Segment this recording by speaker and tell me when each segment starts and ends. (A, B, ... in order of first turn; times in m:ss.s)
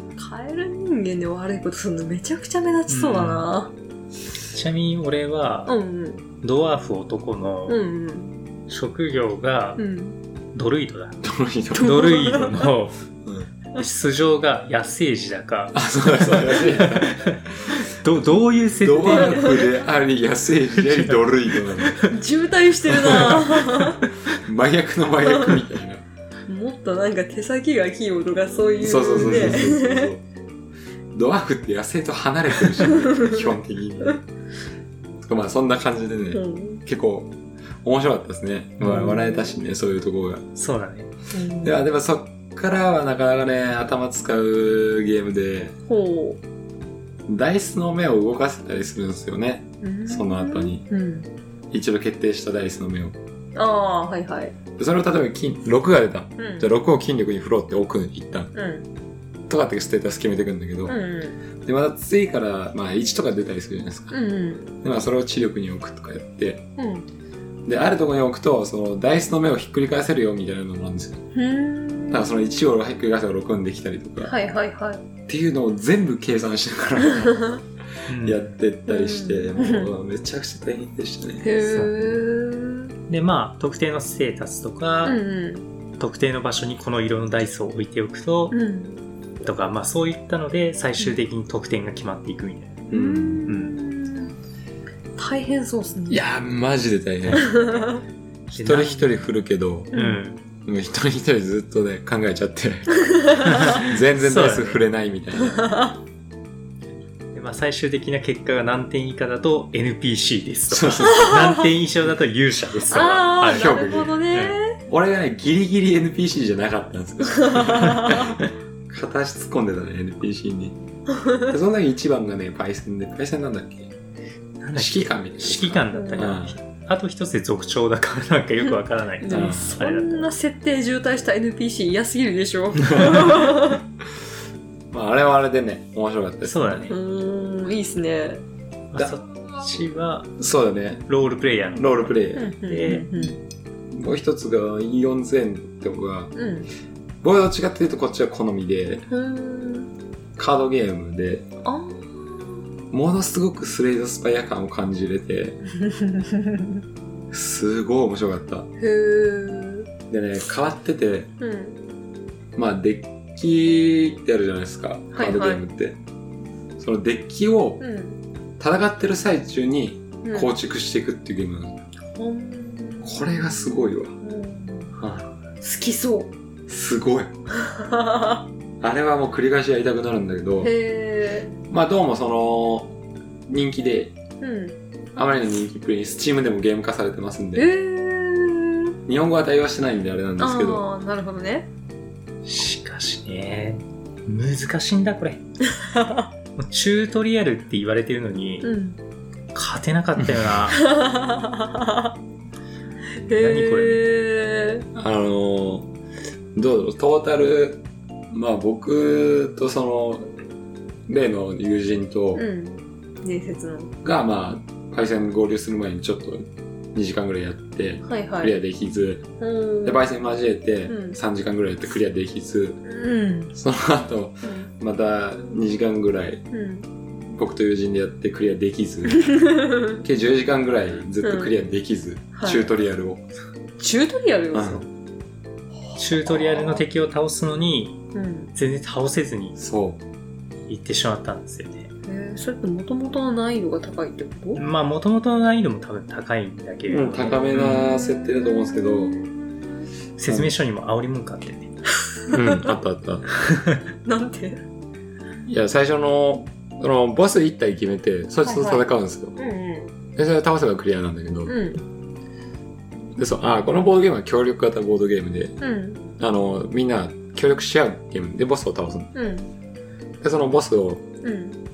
0:00.2-0:03.7 A
0:02.9-0:03.5 B
0:04.5-0:05.7 B
0:05.7-0:06.2 A
0:06.4-0:07.8 B
0:07.7-0:08.4 A
0:08.7-0:09.8 B
0:09.8-0:10.2 A
0:10.5-0:11.2 B
0:11.2-0:12.1 C
0:11.8-0:12.7 A
0:11.8-0:13.0 B
0:13.2-0:13.5 C
0:13.8-0:19.6 B
0:15.8-0:17.8 C
0:18.8-0:22.0 C
0:19.2-0:19.6 A
0:20.8-0:22.1 B
0:22.1-0:24.0 A
0:22.9-0:23.4 C
0:23.1-0:23.7 B
0:24.4-0:26.0 C
0:25.2-0:25.6 A
0:26.5-0:30.1 A
0:28.8-0:30.2 C
0:29.2-0:29.6 B
0:31.1-0:34.2 C
0:35.2-0:37.3 C
0:36.3-0:36.8 A
0:37.8-0:40.4 C
0:38.8-0:39.2 B
0:38.8-0:39.6 A
0:40.6-0:41.1 B
0:41.3-0:41.8 A
0:41.6-0:45.8 C
0:45.9-0:46.4 A
0:47.3-0:50.8 C
0:49.8-0:51.3 A
0:51.7-0:53.2 C
0:53.6-0:54.6 A
0:54.8-0:58.5 C
0:56.4-0:56.7 A
0:58.5-0:58.9 A
0:59.5-1:01.0 C
1:00.9-1:01.4 A
1:01.6-1:04.2 C
1:04.1-1:04.7 A
1:04.8-1:06.6 C
1:06.8-1:07.1 A
1:07.7-1:11.2 C
1:11.3-1:12.3 A
1:12.1-1:14.3 C
1:14.2-1:15.0 A
1:15.3-1:17.6 C
1:17.3-1:17.6 A
1:18.1-1:18.5 B
1:18.1-1:21.5 C
1:18.9-1:19.9 A
1:21.4-1:22.9 A
1:21.6-1:22.2 B
1:23.1-1:25.2 B
1:25.0-1:25.6 A
1:26.0-1:28.6 B
1:28.5-1:29.0 A
1:29.4-1:32.8 B
1:32.9-1:34.4 A
1:32.9-1:33.4 C
1:33.5-1:33.8 B
1:35.2-1:36.2 A
1:36.1-1:37.6 C
1:37.4-1:38.0 A
1:38.5-1:39.3 B
1:38.5-1:39.9 C
1:39.9-1:40.4 B
1:39.9-1:40.2 A
1:40.6-1:43.1 C
1:43.0-1:43.8 A
1:43.5-1:44.8 B
1:43.7-1:45.6 C
1:45.6-1:46.0 A
1:47.3-1:53.8 B
1:50.7-1:51.4 C
1:51.1-1:51.4 A
1:52.9-1:54.8 A
1:53.4-1:54.2 C
1:54.9-2:00.8 C
1:57.3-1:58.3 A
2:01.1-2:01.5 A
2:01.4-2:03.9 C
2:04.6-2:10.3 B
2:04.8-2:06.6 C
2:05.9-2:06.4 A
2:09.2-2:13.8 A
2:09.3-2:09.7 C
2:14.9-2:16.9 C
2:16.4-2:17.0 B
2:16.9-2:18.4 A
2:18.9-2:20.4 B
2:20.4-2:21.1 C
2:21.1-2:23.3 B
2:21.8-2:22.5 C
2:22.3-2:23.4 A
2:23.9-2:26.3 C
2:26.4-2:26.7 A
2:27.2-2:29.1 C
2:29.1-2:29.9 A
2:30.4-2:31.5 C
2:31.6-2:32.6 A
2:32.9-2:35.6 C
2:35.7-2:36.8 A
2:37.3-2:38.7 C
2:38.8-2:39.9 A
2:40.1-2:41.3 C
2:41.4-2:41.8 A
2:42.6-2:46.0 C
2:45.1-2:45.6 A
2:46.8-2:47.8 C
2:47.8-2:48.2 A
2:48.6-2:51.8 C
2:50.2-2:50.5 A
2:52.1-2:55.0 A
2:53.0-2:54.1 C
2:55.0-2:55.3 C
2:55.6-2:56.3 A
2:56.7-2:57.3 C
2:57.6-2:58.4 A
2:58.8-3:00.7 C
3:00.6-3:01.5 A
3:01.7-3:03.0 C
3:03.5-3:04.1 C
3:04.4-3:04.8 A
3:05.2-3:07.7 C
3:07.6-3:08.9 A
3:09.1-3:10.8 C
3:10.4-3:11.7 A
3:12.4-3:15.4 B
3:15.7-3:16.3 A
3:16.6-3:18.7 B
3:18.6-3:19.0 A
3:19.5-3:20.9 B
3:20.2-3:20.5 C
3:20.8-3:22.1 A
3:23.2-3:24.8 A
3:23.3-3:24.1 B
3:25.0-3:25.9 C
3:26.6-3:30.3 C
3:31.1-3:32.4 C
3:32.3-3:33.9 A
3:34.0-3:39.3 C
3:38.0-3:38.5 A
3:39.4-3:40.0 A
3:39.8-3:42.8 C
3:40.9-3:41.2 A
3:42.8-3:43.5 A
3:43.5-3:46.4 C
3:44.4-3:44.7 A
3:46.5-3:46.9 A
3:47.3-3:53.2 C
3:49.2-3:50.0 A
3:51.2-3:51.5 A
3:52.4-3:52.7 A
3:53.8-3:54.9 A
3:54.5-3:54.8 C
3:55.9-3:56.8 A
3:56.0-3:59.6 B
3:58.1-3:58.5 A
3:59.6-4:00.0 C
4:00.7-4:01.9 B
4:02.1-4:04.6 A
4:04.6-4:07.9 B
4:06.9-4:09.1 C
4:07.2-4:09.9 A
4:10.2-4:11.8 B
4:12.2-4:12.7 A
4:12.3-4:13.3 C
4:13.4-4:13.8 B
4:14.0-4:14.6 A
4:15.5-4:19.4 C
4:18.4-4:19.9 A
4:20.2-4:21.6 C
4:21.5-4:21.8 A
4:23.2-4:25.6 C
4:25.6-4:26.0 A
4:26.2-4:29.1 C
4:29.1-4:29.5 A
4:30.2-4:31.1 C
4:31.2-4:31.6 A